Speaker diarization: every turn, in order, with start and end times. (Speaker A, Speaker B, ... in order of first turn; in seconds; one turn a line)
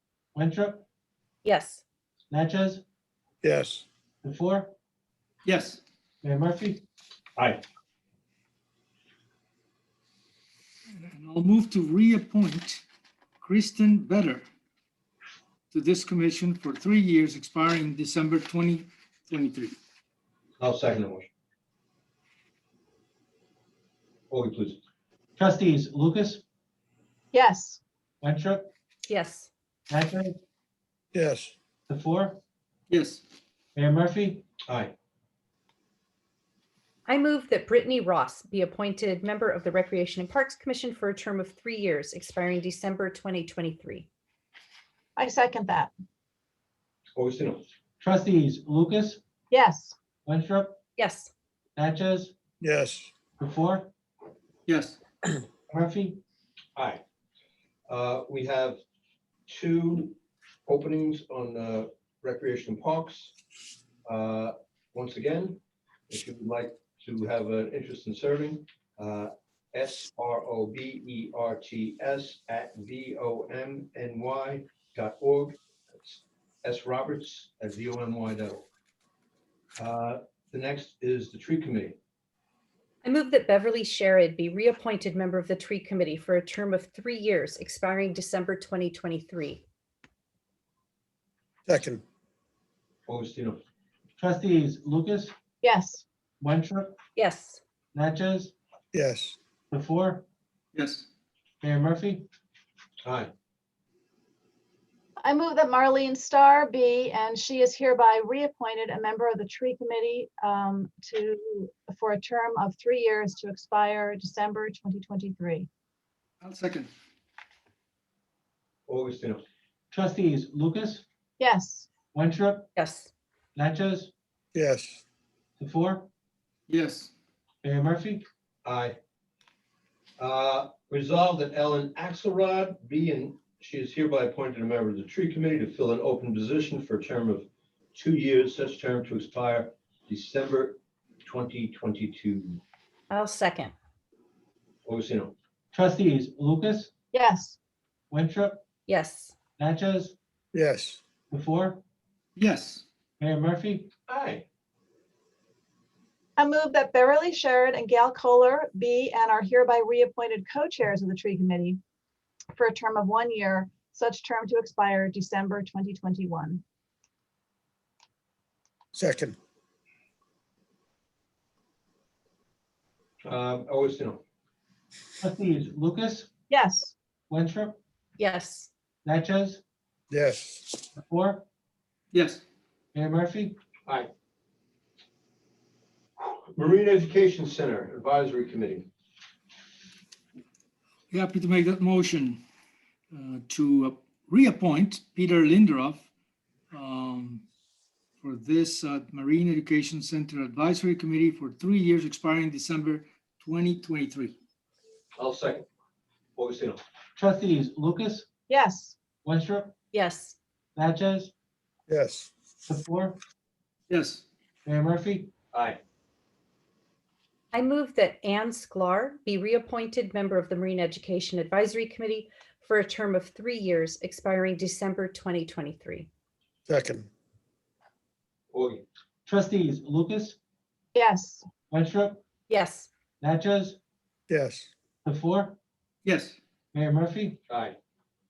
Speaker A: 0.3-0.8
Speaker B: 1.4-1.8
Speaker A: 2.3-2.8
Speaker C: 3.4-3.9
Speaker A: 4.2-4.7
Speaker D: 5.5-5.8
Speaker A: 6.2-6.8
Speaker E: 7.4-7.6
Speaker D: 10.9-12.8
Speaker D: 13.4-14.4
Speaker D: 15.7-19.8
Speaker E: 20.6-21.3
Speaker E: 24.3-24.8
Speaker A: 25.4-26.4
Speaker F: 27.3-27.8
Speaker A: 28.2-28.7
Speaker B: 29.1-29.5
Speaker A: 29.9-30.4
Speaker C: 31.1-31.5
Speaker A: 31.9-32.4
Speaker D: 32.9-33.2
Speaker A: 33.8-34.4
Speaker E: 34.7-34.9
Speaker B: 37.1-44.1
Speaker F: 45.2-45.9
Speaker E: 47.2-47.6
Speaker A: 48.0-49.2
Speaker F: 49.5-50.0
Speaker A: 50.2-50.8
Speaker B: 51.0-51.3
Speaker A: 51.8-52.3
Speaker C: 52.6-53.1
Speaker A: 53.4-53.9
Speaker D: 54.7-55.0
Speaker A: 55.7-56.2
Speaker E: 56.8-57.0
Speaker E: 57.9-58.8
Speaker E: 59.5-63.3
Speaker E: 64.0-78.7
Speaker E: 79.8-82.0
Speaker B: 83.0-89.6
Speaker C: 91.7-92.0
Speaker E: 93.1-93.6
Speaker A: 94.2-95.3
Speaker F: 95.6-96.0
Speaker A: 96.4-97.0
Speaker B: 97.2-97.6
Speaker A: 97.9-98.5
Speaker C: 98.9-99.4
Speaker A: 99.7-100.2
Speaker D: 100.8-101.1
Speaker A: 101.6-102.3
Speaker E: 103.0-103.3
Speaker F: 105.2-115.7
Speaker D: 116.4-116.9
Speaker E: 118.9-119.4
Speaker A: 119.9-121.0
Speaker F: 121.4-121.9
Speaker A: 122.1-122.7
Speaker B: 122.8-123.1
Speaker A: 123.5-124.1
Speaker C: 124.5-125.0
Speaker A: 125.6-126.1
Speaker D: 126.7-127.1
Speaker A: 127.6-128.2
Speaker E: 128.7-129.0
Speaker E: 130.2-142.6
Speaker B: 143.1-143.7
Speaker E: 144.8-145.3
Speaker A: 145.7-146.9
Speaker F: 147.1-147.6
Speaker A: 148.1-148.6
Speaker B: 148.9-149.3
Speaker A: 149.6-150.2
Speaker C: 150.5-151.0
Speaker A: 151.3-151.8
Speaker D: 152.4-152.8
Speaker A: 153.2-153.9
Speaker E: 154.1-154.4
Speaker F: 156.4-161.8
Speaker F: 162.6-166.6
Speaker C: 168.9-169.4
Speaker E: 173.2-174.2
Speaker A: 175.2-176.3
Speaker F: 176.5-176.9
Speaker A: 177.3-177.8
Speaker B: 178.2-178.7
Speaker A: 179.0-179.6
Speaker C: 180.1-180.7
Speaker A: 180.9-181.4
Speaker D: 182.1-182.4
Speaker A: 182.9-183.6
Speaker E: 186.2-188.9
Speaker D: 191.1-192.4
Speaker D: 193.1-196.1
Speaker D: 196.7-197.4
Speaker D: 198.2-204.4
Speaker E: 205.2-205.7
Speaker E: 206.4-206.8
Speaker A: 207.2-208.3
Speaker F: 208.5-209.0
Speaker A: 209.2-209.7
Speaker B: 209.9-210.4
Speaker A: 210.8-211.3
Speaker C: 211.9-212.3
Speaker A: 212.7-213.2
Speaker D: 213.9-214.2
Speaker A: 214.7-215.3
Speaker E: 215.5-215.8
Speaker B: 217.5-226.1
Speaker C: 226.7-227.1
Speaker E: 228.5-228.8
Speaker A: 229.3-230.4
Speaker F: 230.9-231.4
Speaker A: 231.7-232.2
Speaker B: 232.5-232.9
Speaker A: 233.2-233.8
Speaker C: 234.3-234.7
Speaker A: 235.1-235.6
Speaker D: 236.1-236.4
Speaker A: 236.7-237.4
Speaker E: 237.5-237.8